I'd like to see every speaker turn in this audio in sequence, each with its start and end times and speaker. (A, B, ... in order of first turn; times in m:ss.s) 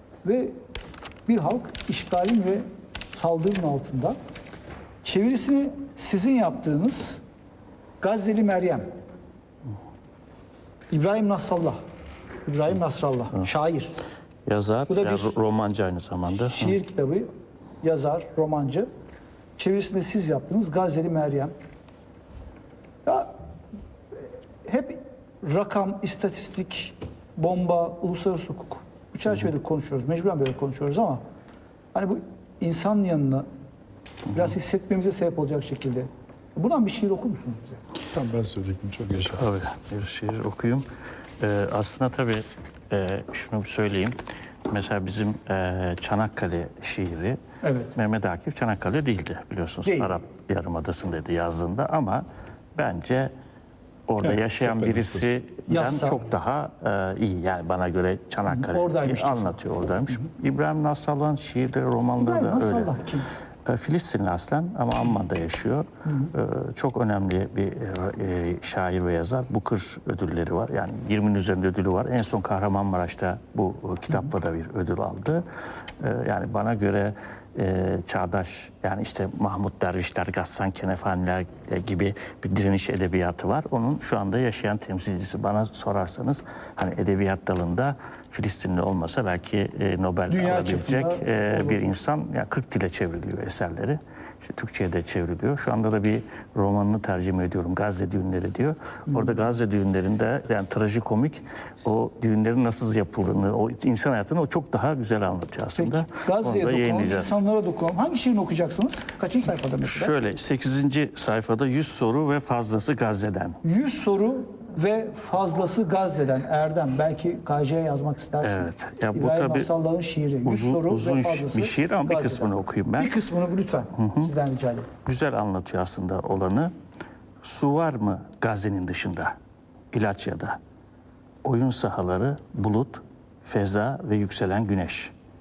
0:00.2-0:00.6 A
0:01.3-0:04.2 A
0:05.0-0:07.2 A
0:08.0-0:08.8 A
0:10.9-0:11.8 A
0:12.4-0:13.9 A
0:14.4-0:16.8 B
0:14.9-0:15.3 A
0:16.3-0:17.3 A
0:17.8-0:18.9 A
0:19.6-0:21.5 A
0:24.6-0:31.2 A
0:31.9-0:33.4 A
0:34.3-0:37.8 A
0:38.1-0:39.4 C
0:39.3-0:40.8 B
0:41.4-0:44.2 B
0:44.7-0:47.4 B
0:47.6-0:47.9 A
0:47.9-0:52.2 B
0:49.8-0:50.1 A
0:52.8-0:53.3 B
0:54.1-1:02.9 B
0:54.3-0:55.1 C
0:55.7-0:56.2 A
0:58.5-0:59.6 A
1:02.2-1:03.3 A
1:03.6-1:15.4 B
1:06.0-1:06.3 A
1:16.0-1:47.4 B
1:30.3-1:31.9 A
1:39.1-1:39.4 A
1:45.8-1:50.1 A
1:49.8-1:53.6 B
1:53.6-2:04.9 A
1:58.4-1:59.7 B
2:00.4-2:03.1 B
2:04.0-2:04.3 B
2:05.0-2:06.7 B
2:07.4-2:09.3 B
2:09.9-2:10.6 B
2:11.4-2:15.1 B